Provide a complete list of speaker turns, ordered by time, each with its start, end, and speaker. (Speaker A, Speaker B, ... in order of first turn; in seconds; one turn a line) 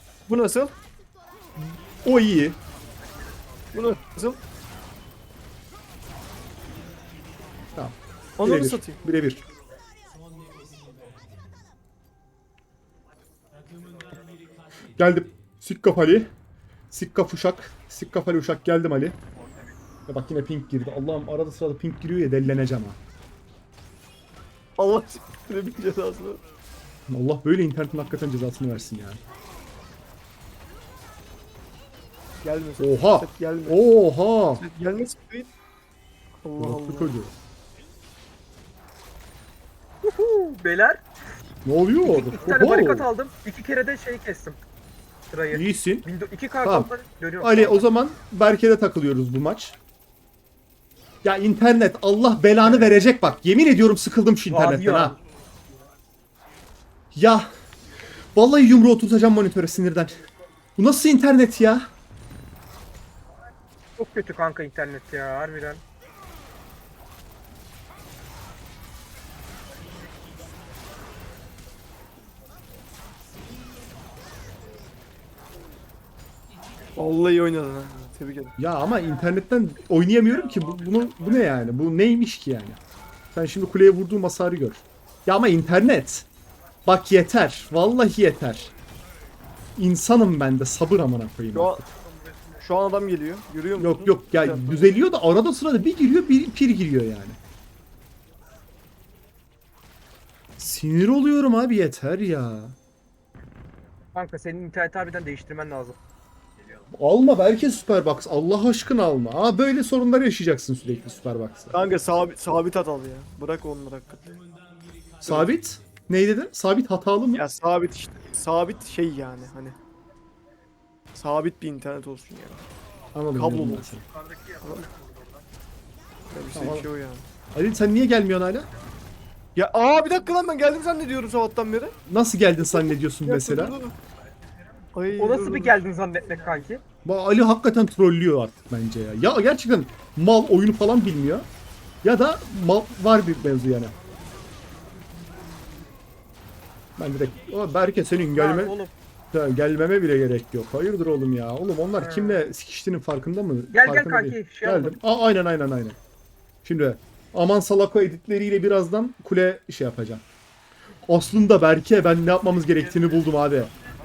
Speaker A: 0.3-0.7
Speaker B: 2.0-2.6
Speaker A: 3.7-4.4
Speaker B: 7.7-9.4
Speaker A: 8.4-9.0
Speaker B: 14.9-16.3
Speaker B: 16.9-19.2
Speaker B: 20.1-23.0
Speaker A: 24.8-26.4
Speaker B: 27.1-29.2
Speaker A: 32.4-33.8
Speaker B: 32.8-34.6
Speaker A: 34.6-35.5
Speaker A: 36.4-37.1
Speaker B: 36.6-37.3
Speaker C: 40.0-41.0
Speaker B: 41.6-43.1
Speaker C: 42.0-44.6
Speaker C: 45.3-47.9
Speaker B: 45.5-46.1
Speaker B: 46.6-46.9
Speaker B: 47.4-49.8
Speaker B: 51.2-55.1
Speaker C: 52.6-53.0
Speaker C: 54.5-55.2
Speaker B: 57.1-57.5
Speaker B: 58.3-60.2
Speaker B: 60.8-61.9
Speaker C: 64.0-65.8
Speaker A: 77.0-78.5
Speaker B: 78.6-82.8
Speaker B: 83.3-86.2
Speaker B: 86.8-88.7
Speaker B: 89.8-91.9
Speaker A: 91.5-91.8
Speaker A: 92.6-95.0
Speaker B: 93.8-97.4
Speaker B: 100.6-102.8
Speaker C: 104.1-106.0
Speaker B: 106.9-111.8
Speaker A: 111.7-114.3
Speaker B: 115.2-117.5
Speaker A: 117.3-119.8
Speaker A: 121.1-122.6
Speaker B: 123.1-124.0
Speaker A: 123.3-124.0
Speaker A: 124.6-124.9
Speaker A: 126.3-127.2
Speaker B: 126.5-126.9
Speaker B: 127.5-128.7
Speaker A: 129.6-131.9
Speaker B: 132.1-133.8
Speaker A: 132.6-133.9
Speaker A: 134.9-135.8
Speaker C: 135.2-136.8
Speaker B: 137.0-141.5
Speaker B: 142.0-143.9
Speaker B: 147.0-148.8
Speaker C: 148.3-148.9
Speaker B: 149.3-156.0
Speaker C: 152.0-152.4
Speaker C: 153.7-154.9
Speaker B: 156.6-160.2
Speaker B: 161.1-163.7